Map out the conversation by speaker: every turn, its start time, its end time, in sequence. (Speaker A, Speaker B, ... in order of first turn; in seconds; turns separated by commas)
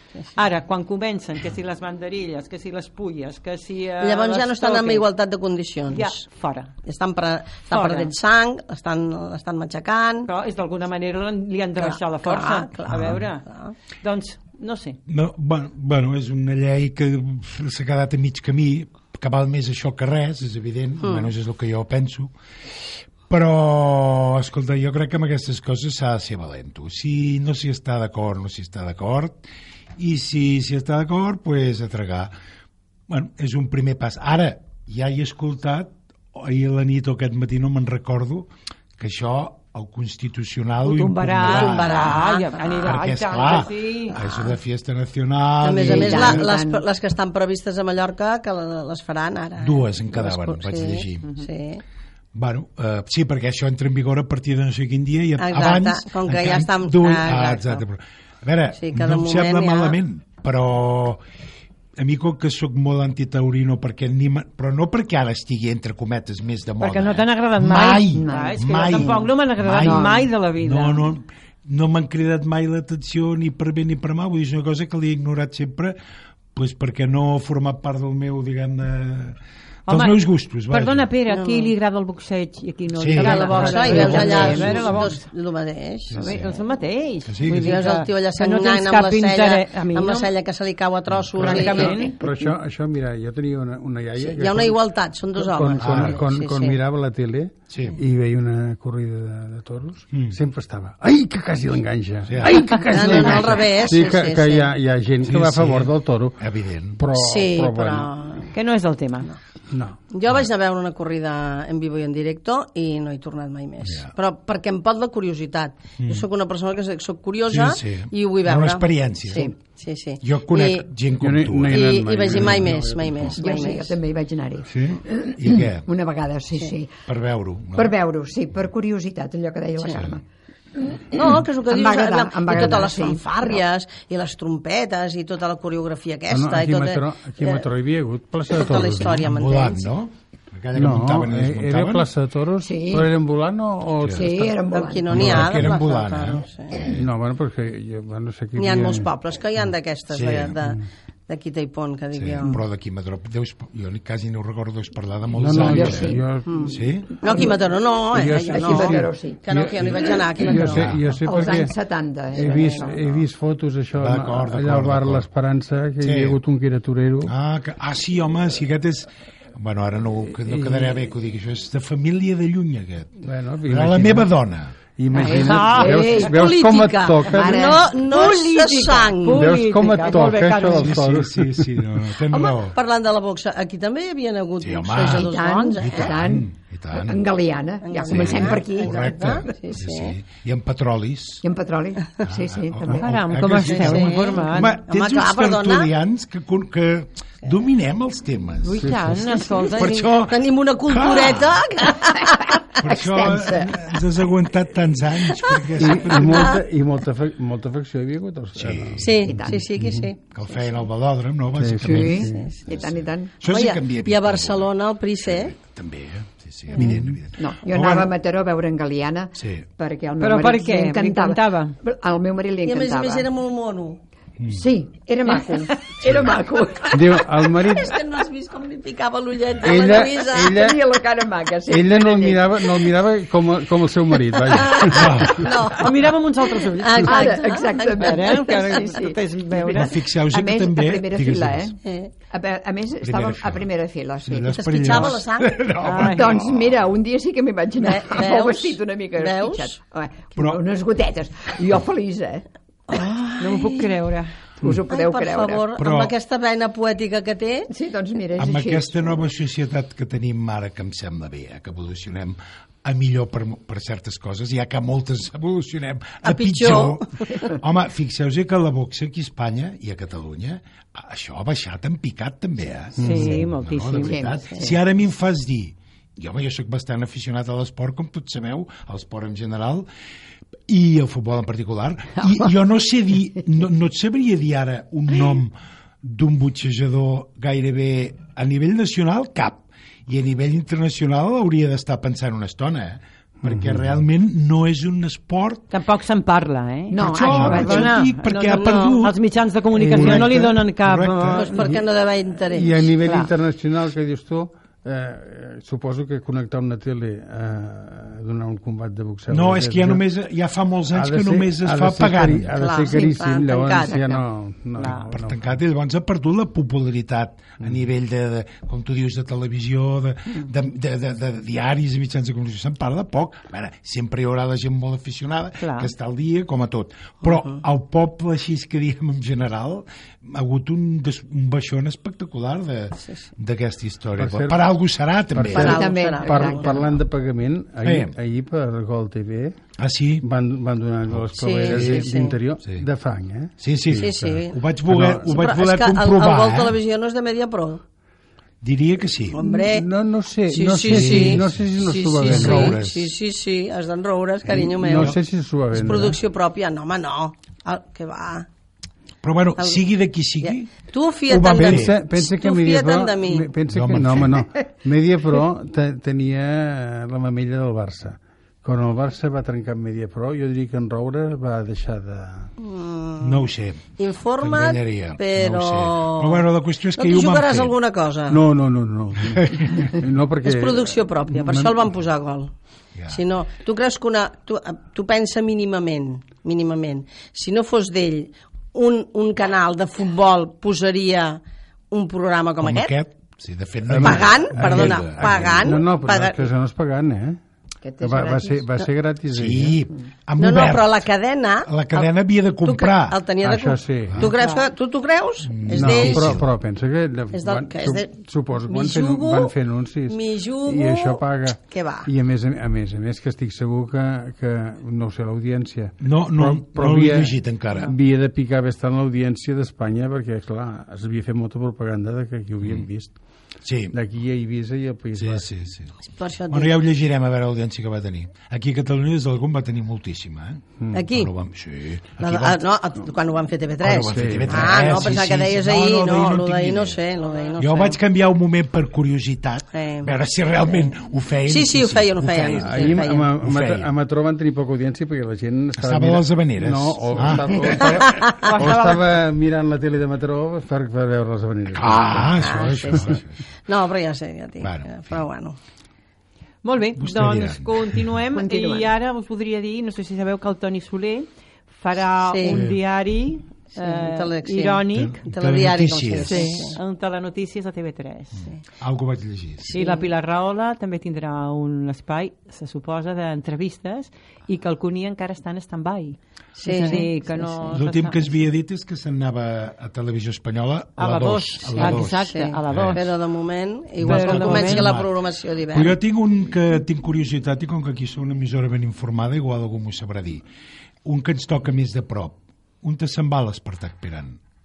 Speaker A: 0.3-5.0, Speaker B: 4.0-6.2, Speaker A: 5.9-6.7, Speaker B: 6.8-10.3, Speaker A: 7.7-8.1, Speaker A: 10.3-15.0, Speaker B: 11.8-13.7, Speaker C: 12.9-13.2, Speaker C: 15.1-22.3, Speaker B: 21.0-21.3, Speaker C: 23.3-29.4, Speaker C: 30.0-32.3, Speaker C: 33.1-42.2, Speaker A: 40.8-44.2, Speaker B: 41.4-42.6, Speaker C: 42.7-46.5, Speaker B: 45.6-51.8, Speaker D: 45.8-46.8, Speaker C: 49.6-51.3, Speaker C: 52.3-61.2, Speaker B: 55.4-57.8, Speaker B: 58.8-60.0, Speaker C: 62.0-76.0, Speaker A: 66.8-71.1, Speaker D: 68.1-70.3, Speaker C: 76.5-81.1, Speaker A: 79.9-85.2, Speaker B: 81.3-81.7, Speaker C: 82.9-84.8, Speaker B: 83.2-86.4, Speaker E: 83.6-84.6, Speaker D: 83.7-84.7, Speaker A: 86.2-90.3, Speaker C: 87.3-87.8, Speaker B: 87.6-92.1, Speaker A: 91.4-92.2, Speaker E: 91.5-94.8, Speaker D: 91.5-92.0, Speaker B: 94.2-96.8, Speaker E: 95.3-106.4, Speaker C: 95.8-96.2, Speaker C: 97.7-98.0, Speaker C: 102.3-102.7, Speaker B: 102.7-104.7, Speaker C: 105.2-107.0, Speaker E: 107.0-108.1, Speaker B: 107.2-108.5, Speaker A: 108.5-109.3, Speaker E: 109.7-110.0, Speaker B: 110.1-120.9, Speaker C: 113.8-114.1, Speaker C: 116.0-116.2, Speaker C: 117.5-119.5, Speaker C: 120.2-123.3, Speaker E: 121.2-123.3, Speaker B: 121.7-124.0, Speaker D: 123.4-127.0, Speaker C: 124.7-125.9, Speaker C: 127.0-127.9, Speaker D: 127.8-130.2, Speaker C: 129.9-130.1, Speaker D: 130.8-133.6, Speaker B: 131.1-137.7, Speaker E: 136.3-139.2, Speaker B: 138.5-139.9, Speaker C: 139.0-142.1, Speaker E: 140.7-144.5, Speaker D: 142.6-143.1, Speaker C: 144.0-144.2, Speaker D: 144.1-145.3, Speaker B: 144.7-146.9, Speaker C: 145.1-147.0, Speaker E: 146.9-149.1, Speaker B: 148.6-152.6, Speaker C: 150.1-150.6, Speaker C: 152.2-157.2, Speaker E: 155.3-156.7, Speaker D: 155.5-156.2, Speaker B: 156.4-160.9, Speaker D: 157.2-157.6, Speaker E: 158.1-161.7, Speaker D: 158.3-159.4, Speaker C: 160.7-161.0, Speaker D: 161.2-163.0, Speaker E: 162.3-167.3, Speaker B: 162.4-162.8, Speaker C: 163.9-165.2, Speaker C: 166.0-166.4, Speaker C: 167.2-173.2, Speaker E: 170.4-171.0, Speaker E: 173.2-174.3, Speaker C: 173.7-174.7, Speaker E: 174.9-177.7, Speaker D: 175.1-176.3, Speaker A: 175.2-176.3, Speaker B: 176.1-179.4, Speaker D: 177.2-177.9, Speaker A: 178.0-181.0, Speaker E: 179.3-181.8, Speaker C: 180.8-182.8, Speaker B: 182.3-186.2, Speaker C: 184.6-187.2, Speaker D: 185.0-189.5, Speaker B: 187.8-190.2, Speaker C: 188.1-191.4, Speaker D: 191.4-193.2, Speaker C: 192.2-201.6, Speaker A: 192.9-194.8, Speaker B: 193.6-195.9, Speaker A: 198.6-200.1, Speaker E: 198.8-199.2, Speaker B: 199.5-202.6, Speaker C: 202.8-206.6, Speaker D: 202.8-203.8, Speaker E: 205.8-210.1, Speaker C: 208.6-209.3, Speaker B: 209.0-210.2, Speaker D: 209.3-209.6, Speaker C: 210.3-214.7, Speaker E: 211.5-212.5, Speaker D: 211.8-213.4, Speaker B: 212.3-212.8, Speaker B: 213.4-215.6, Speaker C: 215.2-218.1, Speaker E: 216.8-217.2, Speaker D: 217.4-223.3, Speaker C: 219.4-219.6, Speaker A: 220.2-221.8, Speaker B: 222.6-224.0, Speaker D: 224.5-227.2, Speaker C: 226.0-226.4, Speaker E: 226.9-228.0, Speaker B: 227.6-230.7, Speaker E: 229.6-230.8, Speaker D: 230.5-232.7, Speaker E: 231.7-235.5, Speaker B: 234.6-235.9, Speaker C: 234.8-235.5, Speaker A: 235.8-239.9, Speaker B: 236.7-238.8, Speaker D: 237.0-245.2, Speaker C: 239.7-241.7, Speaker B: 241.8-242.1, Speaker C: 243.0-243.7, Speaker C: 244.2-246.8, Speaker B: 244.5-245.7, Speaker A: 245.8-246.3, Speaker D: 245.9-253.1, Speaker B: 247.8-249.8, Speaker B: 252.9-253.8, Speaker A: 253.4-254.3, Speaker D: 254.6-255.6, Speaker B: 254.9-257.7, Speaker C: 255.8-256.1, Speaker D: 257.7-259.2, Speaker C: 258.4-279.9, Speaker B: 266.2-267.5, Speaker E: 273.0-273.4, Speaker A: 273.0-274.4, Speaker D: 273.9-274.8, Speaker C: 280.7-295.7, Speaker E: 293.4-294.0, Speaker A: 295.7-301.7, Speaker D: 296.9-298.1, Speaker C: 297.0-299.1, Speaker B: 298.5-298.9, Speaker E: 299.7-300.5, Speaker C: 299.9-301.4, Speaker B: 301.3-302.9, Speaker E: 302.5-310.0, Speaker A: 303.0-303.3, Speaker C: 309.3-312.5, Speaker E: 310.9-315.6, Speaker B: 312.5-314.2, Speaker A: 314.8-315.1, Speaker C: 314.8-335.8, Speaker A: 325.6-325.9, Speaker E: 334.2-334.7, Speaker E: 335.3-339.6, Speaker B: 335.4-336.8, Speaker D: 335.6-336.8, Speaker C: 337.8-338.1, Speaker C: 339.8-340.2, Speaker E: 340.2-345.2, Speaker C: 341.1-342.1, Speaker B: 341.4-342.4, Speaker C: 343.6-346.7, Speaker B: 343.9-344.6, Speaker B: 345.2-347.8, Speaker C: 348.6-349.4, Speaker B: 349.3-349.9, Speaker E: 349.4-352.8, Speaker B: 350.5-355.2, Speaker C: 350.9-351.6, Speaker C: 352.2-353.1, Speaker E: 354.4-356.2, Speaker B: 355.7-358.5, Speaker C: 359.2-360.7, Speaker B: 359.6-359.8, Speaker B: 360.4-363.5, Speaker E: 361.3-372.5, Speaker C: 361.3-361.9, Speaker C: 363.7-364.4, Speaker B: 372.6-378.4, Speaker C: 373.2-377.7, Speaker E: 378.3-381.7, Speaker C: 379.4-379.9, Speaker B: 380.4-382.5, Speaker B: 383.1-392.9, Speaker C: 392.6-395.7, Speaker E: 393.9-397.4, Speaker B: 394.0-396.5, Speaker D: 397.8-398.7, Speaker E: 398.0-399.8, Speaker C: 399.3-401.0, Speaker B: 400.4-402.1, Speaker C: 401.6-403.2, Speaker B: 402.6-406.4, Speaker E: 403.4-404.3, Speaker C: 405.5-406.4, Speaker E: 405.7-423.2, Speaker B: 407.3-408.1, Speaker B: 408.7-409.5, Speaker B: 410.1-412.1, Speaker C: 416.0-417.9, Speaker C: 423.6-423.9, Speaker E: 423.9-425.5, Speaker C: 425.1-426.0, Speaker B: 426.0-426.7, Speaker C: 426.5-432.6, Speaker B: 430.9-431.3, Speaker B: 432.2-438.0, Speaker C: 433.8-437.0, Speaker E: 434.1-434.8, Speaker C: 437.6-443.9, Speaker B: 439.7-440.1, Speaker B: 441.4-443.3, Speaker E: 442.6-453.2, Speaker C: 445.8-448.0, Speaker B: 448.0-448.3, Speaker A: 448.2-449.1, Speaker C: 451.8-453.3, Speaker B: 452.3-455.6, Speaker C: 454.6-455.2, Speaker A: 456.6-465.2, Speaker C: 457.0-458.0, Speaker D: 458.3-458.9, Speaker B: 462.2-462.7, Speaker C: 462.4-462.8, Speaker B: 463.7-466.8, Speaker C: 464.9-466.5, Speaker A: 466.2-468.4, Speaker C: 468.8-469.8, Speaker A: 469.7-478.4, Speaker B: 476.6-477.2, Speaker C: 477.7-483.0, Speaker A: 481.0-483.1, Speaker B: 481.7-486.0, Speaker C: 484.0-485.1, Speaker A: 484.0-484.9, Speaker C: 485.7-490.4, Speaker C: 491.0-494.4